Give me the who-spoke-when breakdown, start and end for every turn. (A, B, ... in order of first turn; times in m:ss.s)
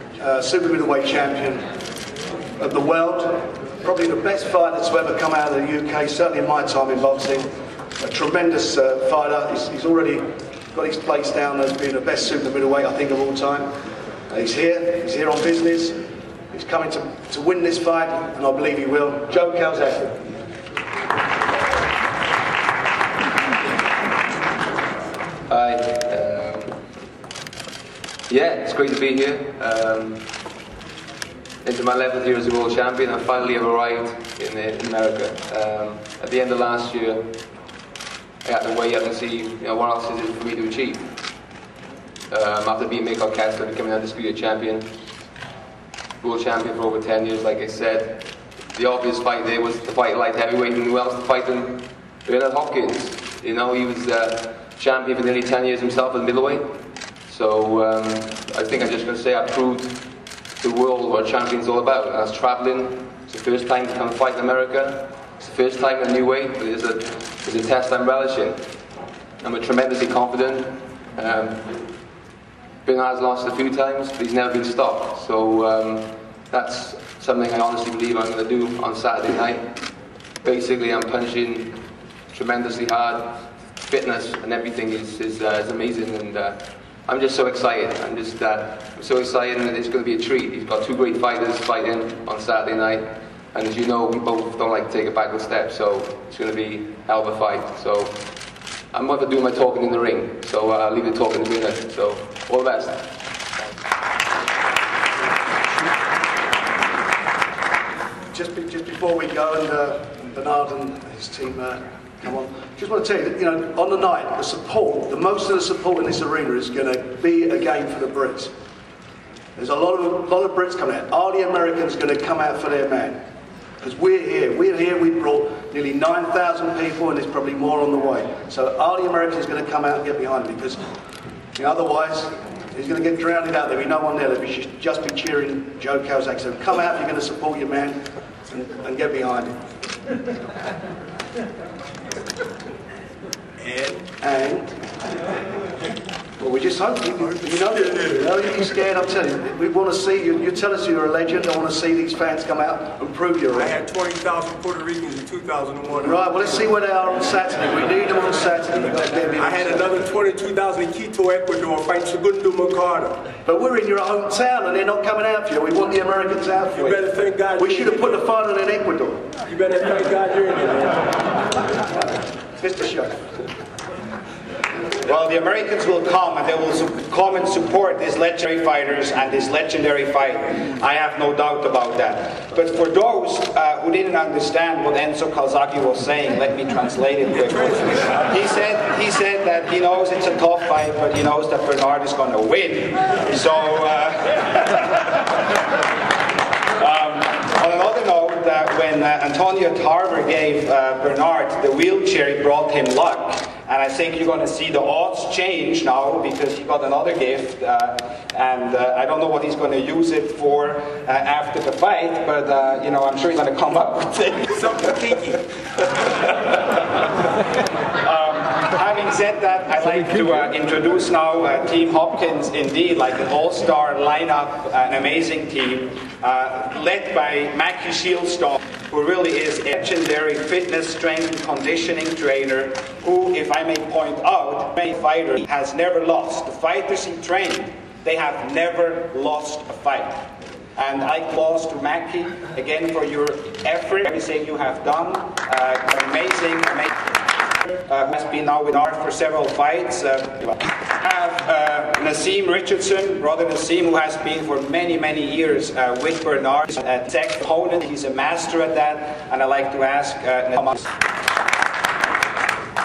0:00.2-0:01.6 A
0:02.6-0:07.5 A
0:08.0-0:13.7 A
0:14.3-0:16.0 A
0:16.5-0:20.3 A
0:25.5-0:26.8 B
0:28.3-0:30.2 B
0:31.6-0:37.3 B
0:38.4-0:41.0 B
0:42.3-0:44.9 B
0:46.2-0:56.7 B
0:57.3-1:00.0 B
1:00.6-1:08.6 B
1:09.4-1:11.7 B
1:12.8-1:19.6 B
1:20.4-1:21.8 B
1:22.3-1:38.1 B
1:38.9-1:43.1 B
1:48.3-1:58.5 A
1:59.6-2:03.2 A
2:03.8-2:10.8 A
2:11.5-2:18.0 A
2:18.5-2:19.6 A
2:23.6-2:24.0 C
2:24.2-2:24.7 A
2:26.4-2:33.8 A
2:33.5-2:36.3 C
2:36.0-2:39.9 A
2:39.4-2:43.2 C
2:43.4-2:47.0 A
2:46.7-2:48.2 C
2:47.6-2:49.2 A
2:49.4-2:51.2 C
2:52.6-2:53.2 A
2:55.0-3:15.4 D
3:07.4-3:08.3 C
3:16.8-3:35.0 D
3:34.6-3:35.4 C
3:38.0-4:06.9 D
4:07.9-4:20.9 D